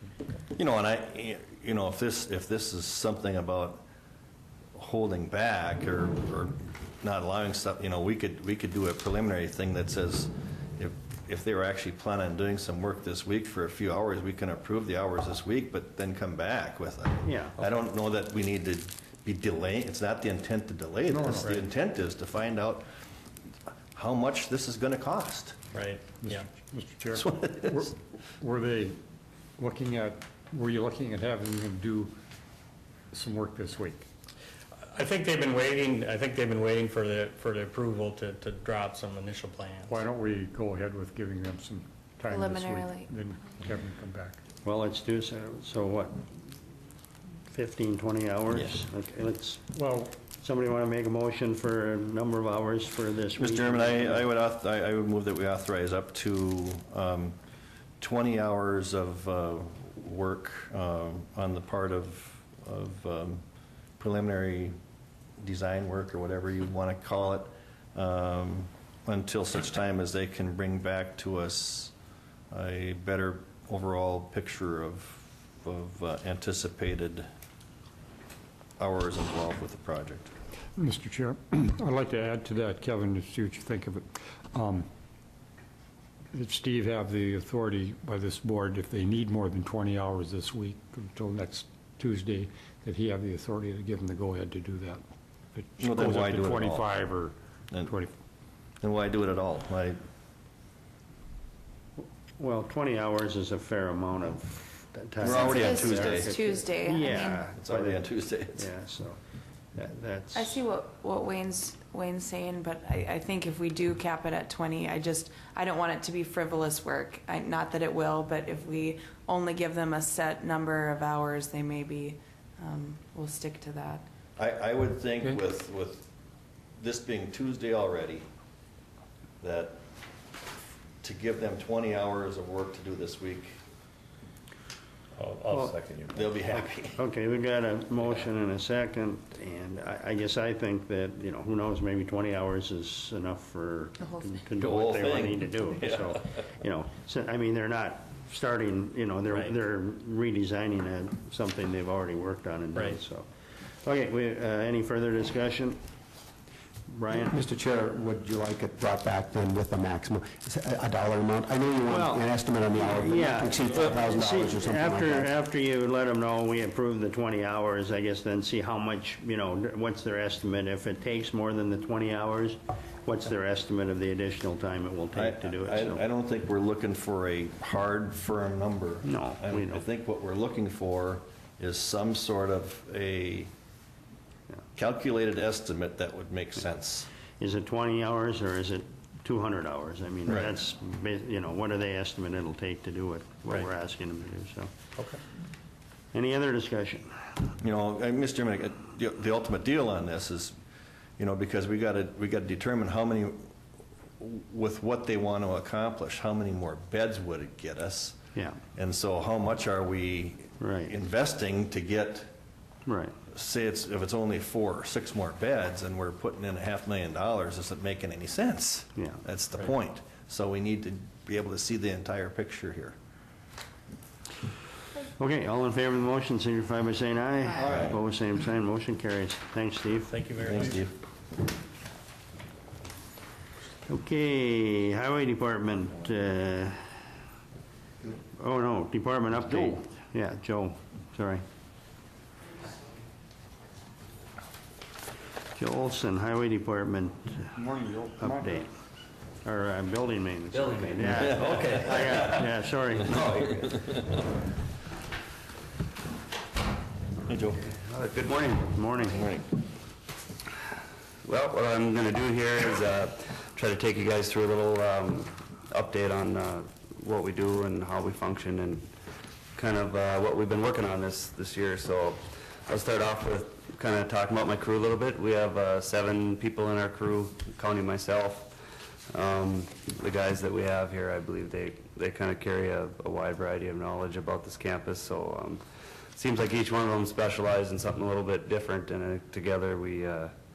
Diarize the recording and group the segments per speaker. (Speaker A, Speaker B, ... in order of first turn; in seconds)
Speaker A: 0.6-3.8, 4.8-22.9, 23.9-25.6, 27.1-27.9, 53.4-57.4, 58.0-63.4, 64.0-64.8, 65.4-71.9, 72.5-77.3, 78.8-80.3, 95.8-96.9, 98.8-100.0, 105.2-106.4, 107.5-108.7, 124.4-126.1, 126.8-128.2, 129.4-129.8, 131.0-133.6, 136.1-137.0, 144.6-146.2, 175.1-183.5, 184.8-187.1, 197.6-200.6, 201.2-203.5, 204.2-208.2, 208.8-212.3, 213.3-223.0, 227.6-228.0, 230.4-231.0, 239.5-239.8, 251.4-251.7, 253.4-253.8, 257.3-257.6, 259.0-259.5
Speaker B: 17.2-17.6, 44.6-46.3, 47.5-54.3, 102.0-109.2, 109.8-110.7, 136.9-153.3, 153.8-155.8, 156.9-157.4, 161.9-162.2, 162.9-176.0, 179.0-179.8, 187.4-194.7, 196.1-197.3, 208.3-208.6, 210.6-210.9, 212.9-213.2, 225.2-230.2, 233.9-236.8, 238.2-241.4, 245.6-247.6, 248.2-248.7, 249.4-253.5, 258.6-259.2
Speaker C: 21.1-21.7, 26.2-29.0, 29.6-32.1, 33.1-34.1, 39.9-44.4, 49.8-50.0, 80.8-84.9, 86.3-95.0, 95.5-98.1, 247.6-248.6
Speaker D: 25.7-26.5, 34.9-40.0, 135.2-136.3, 152.8-153.0, 230.1-230.9
Speaker E: 42.3-43.1, 105.3-107.4, 110.3-124.0
Speaker F: 157.2-165.3
Speaker G: 250.5-252.3, 257.9-258.7, 261.2-268.9, 269.6-278.6, 279.1-290.3